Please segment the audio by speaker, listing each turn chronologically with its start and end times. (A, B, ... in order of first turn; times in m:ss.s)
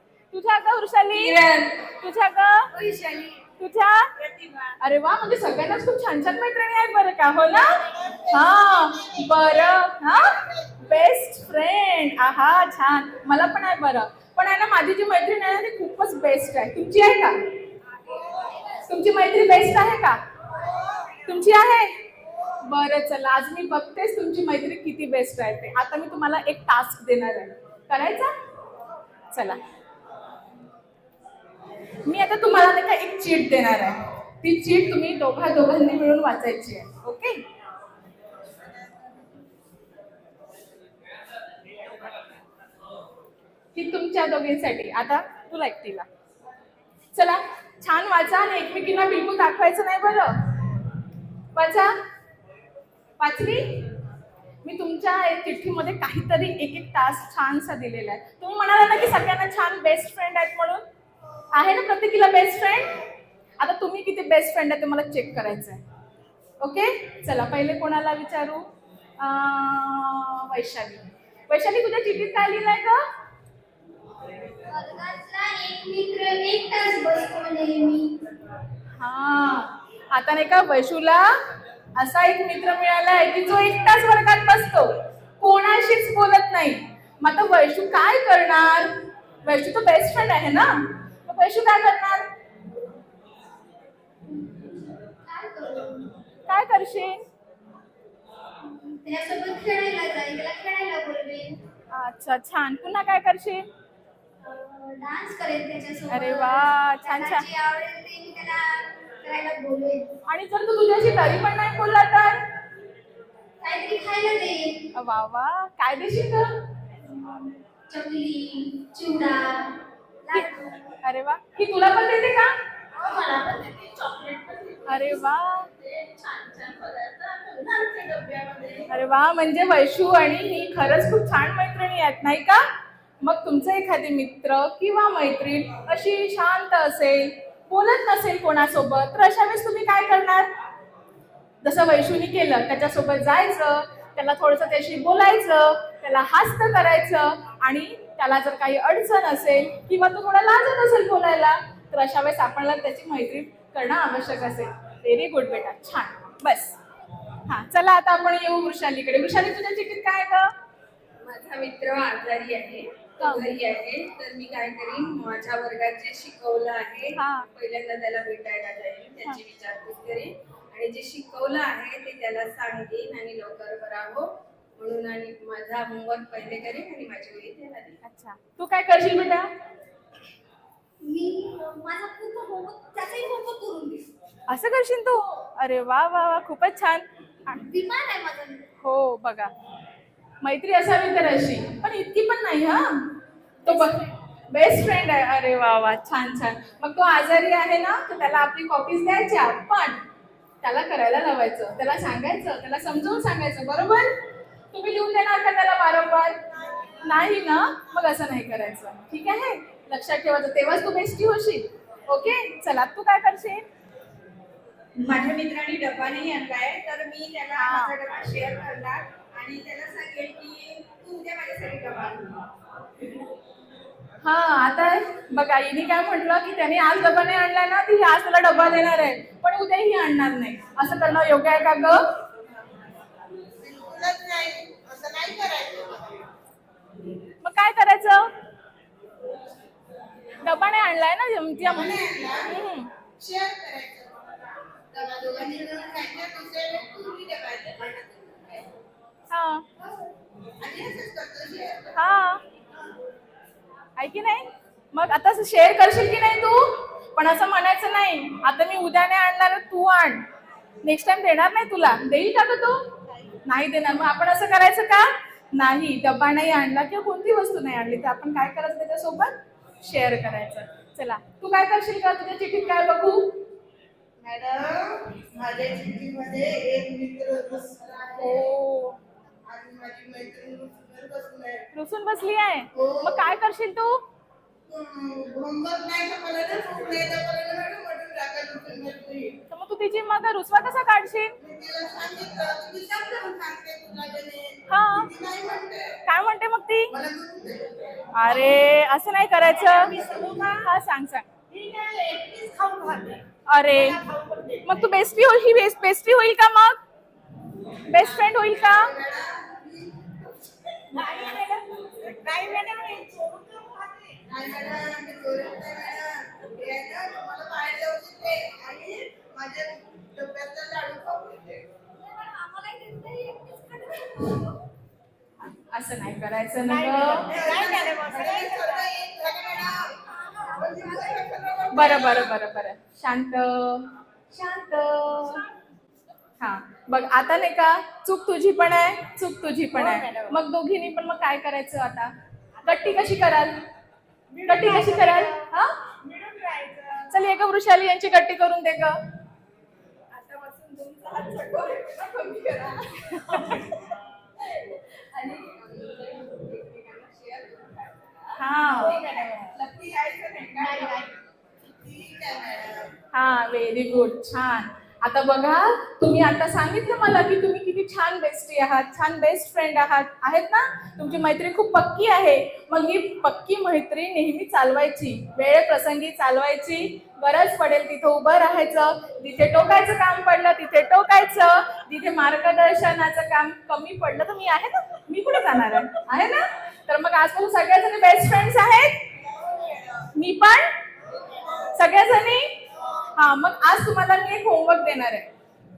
0:00.3-0:01.4 A
0:01.1-0:01.8 B
0:02.0-0:02.7 A
0:02.7-0:03.4 B
0:03.6-0:04.1 A
0:04.2-0:04.7 B
0:04.8-0:17.4 A
0:08.0-0:09.5 C
0:18.8-0:20.2 A
0:21.2-0:22.0 A
0:22.6-0:28.3 A
0:29.3-0:29.6 A
0:32.0-0:37.4 A
0:43.7-0:46.1 A
0:47.1-0:50.3 A
0:51.5-0:51.9 A
0:53.2-0:53.9 A
0:54.6-1:00.8 A
1:01.5-1:03.0 A
1:03.6-1:05.8 A
1:06.6-1:08.6 A
1:09.2-1:13.0 A
1:14.6-1:18.2 B
1:19.0-1:21.3 A
1:22.0-1:28.9 A
1:29.4-1:32.2 A
1:34.2-1:36.1 B
1:36.5-1:37.2 A
1:38.6-1:41.6 B
1:41.9-1:43.6 A
1:44.4-1:50.1 B
1:46.1-1:47.5 A
1:50.3-1:52.4 A
1:53.6-1:54.8 B
1:54.9-1:56.5 A
1:57.1-2:00.8 B
2:01.0-2:02.5 A
2:03.0-2:03.9 B
2:04.2-2:04.8 D
2:04.9-2:05.7 A
2:05.9-2:08.7 D
2:06.5-2:06.9 B
2:08.9-2:12.6 A
2:13.2-2:20.5 A
2:21.6-2:36.8 A
2:37.4-2:40.5 A
2:41.2-2:57.9 D
2:43.2-2:43.6 A
2:47.2-2:47.5 A
2:58.0-2:59.5 A
3:01.0-3:04.0 B
3:04.5-3:07.6 A
3:07.5-3:08.7 B
3:08.8-3:09.5 A
3:10.4-3:13.1 A
3:13.6-3:20.0 A
3:13.7-3:14.1 B
3:20.6-3:24.1 A
3:24.7-3:26.4 A
3:27.0-3:33.6 A
3:35.0-3:42.4 D
3:37.6-3:38.0 A
3:44.2-3:52.0 A
3:53.6-3:56.2 C
3:57.4-3:58.3 A
4:00.4-4:02.9 A
4:01.7-4:02.5 C
4:03.2-4:04.2 C
4:04.9-4:08.6 C
4:09.3-4:09.6 A
4:10.6-4:11.9 C
4:12.0-4:12.4 A
4:14.0-4:16.6 A
4:17.1-4:20.2 A
4:20.8-4:22.8 A
4:23.4-4:33.4 A
4:34.2-4:38.5 C
4:38.2-4:39.0 A
4:39.4-4:41.6 C
4:41.7-4:44.0 A
4:42.7-4:43.2 C
4:44.7-4:49.3 C
4:49.5-4:51.3 A
4:51.4-4:55.9 C
4:54.7-4:55.1 A
4:56.0-4:56.9 A
4:56.9-4:57.7 C
4:58.1-4:59.9 A
5:00.0-5:00.5 D
5:00.6-5:01.3 A
5:01.5-5:03.1 D
5:03.5-5:04.0 A
5:04.0-5:04.6 D
5:04.6-5:06.8 A
5:07.8-5:08.9 A
5:08.0-5:10.2 C
5:11.0-5:11.5 C
5:11.1-5:14.1 D
5:14.2-5:21.6 C
5:22.1-5:24.6 B
5:25.5-5:27.3 A
5:27.2-5:29.9 C
5:27.4-5:28.6 B
5:27.4-5:28.5 D
5:30.2-5:31.2 B
5:30.5-5:32.3 C
5:31.7-5:35.4 A
5:36.4-5:42.1 A
5:42.6-5:43.6 A
5:44.3-5:45.4 D
5:44.4-5:45.8 A
5:46.0-5:47.1 D
5:47.1-5:49.0 A
5:50.1-5:53.7 D
5:53.3-5:53.6 A
5:54.5-6:01.1 D
5:58.4-5:59.3 A
6:01.8-6:02.9 C
6:03.1-6:29.0 A
6:30.1-6:30.7 A
6:31.7-6:32.5 A
6:33.2-6:35.3 A